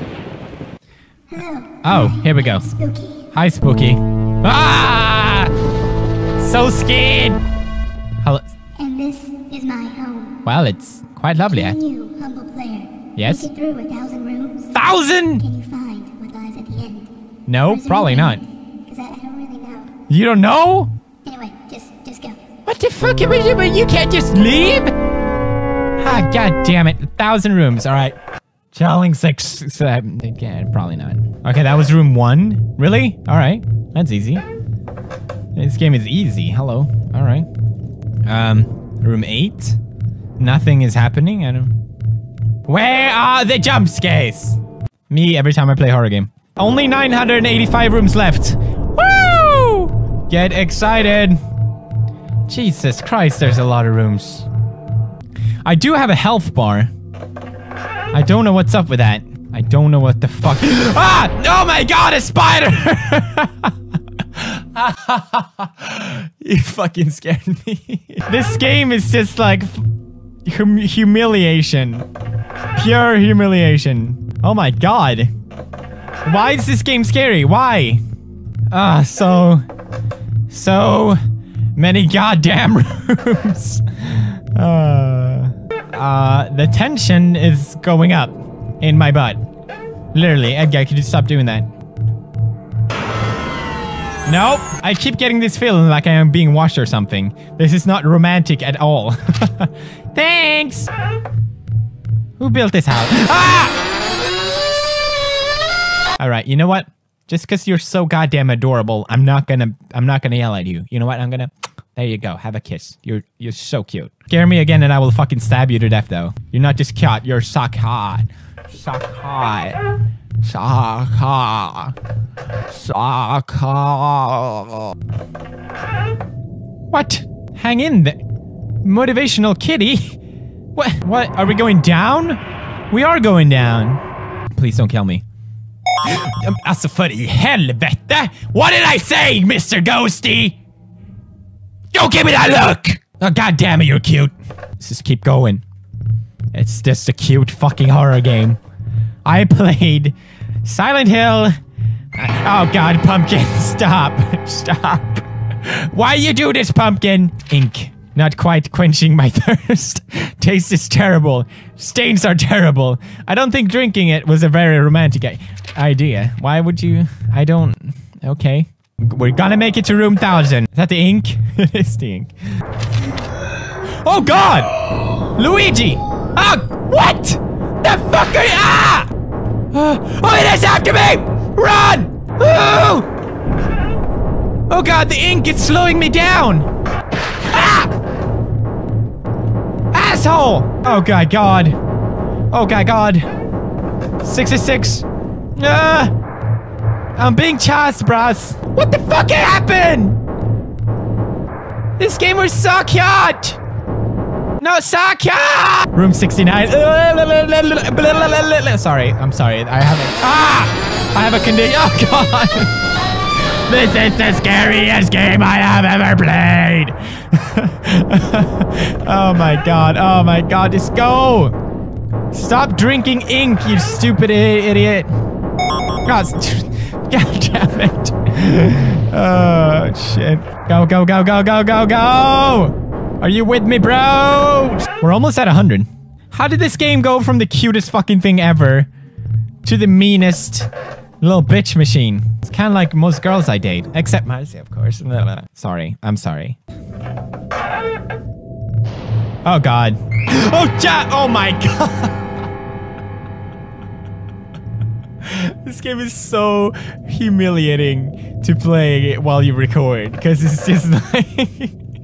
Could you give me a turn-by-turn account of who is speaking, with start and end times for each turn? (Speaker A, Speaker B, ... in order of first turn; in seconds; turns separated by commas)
Speaker A: 1.3-3.3, Speaker B: 1.8-2.7, Speaker B: 3.3-5.5, Speaker B: 6.4-7.4, Speaker B: 8.2-8.5, Speaker A: 8.8-10.4, Speaker B: 10.4-11.8, Speaker A: 11.5-14.7, Speaker B: 13.2-13.5, Speaker B: 14.7-15.4, Speaker A: 15.4-17.1, Speaker B: 17.5-18.4, Speaker A: 17.6-19.9, Speaker B: 20.1-20.9, Speaker A: 21.2-22.4, Speaker B: 22.6-24.9, Speaker B: 26.0-28.1, Speaker B: 28.7-34.4, Speaker B: 35.5-37.5, Speaker B: 38.2-39.8, Speaker B: 40.4-41.7, Speaker B: 42.7-51.4, Speaker B: 52.5-54.5, Speaker B: 55.6-56.9, Speaker B: 58.1-63.7, Speaker B: 64.3-69.8, Speaker B: 70.4-72.1, Speaker B: 72.7-75.3, Speaker B: 76.2-78.0, Speaker B: 78.7-79.6, Speaker B: 80.5-81.2, Speaker B: 81.7-89.4, Speaker B: 90.1-91.7, Speaker B: 94.2-100.9, Speaker B: 102.4-103.8, Speaker B: 106.2-119.8, Speaker B: 120.4-122.0, Speaker B: 122.7-124.9, Speaker B: 126.9-128.2, Speaker B: 128.8-130.2, Speaker B: 130.7-134.0, Speaker B: 134.5-135.2, Speaker B: 136.0-140.6, Speaker B: 141.9-145.6, Speaker B: 146.5-148.6, Speaker B: 149.2-151.5, Speaker B: 152.1-172.3, Speaker B: 174.0-174.7, Speaker B: 175.3-179.1, Speaker B: 179.7-183.1, Speaker B: 184.7-186.7, Speaker B: 187.4-187.9, Speaker B: 189.9-191.8, Speaker B: 192.5-193.3, Speaker B: 194.2-196.1, Speaker B: 197.2-200.2, Speaker B: 202.0-203.6, Speaker B: 204.6-212.7, Speaker B: 213.7-221.5, Speaker B: 222.3-225.1, Speaker B: 226.0-238.9, Speaker B: 239.6-240.7, Speaker B: 241.2-246.6, Speaker B: 249.4-252.3, Speaker B: 255.2-261.7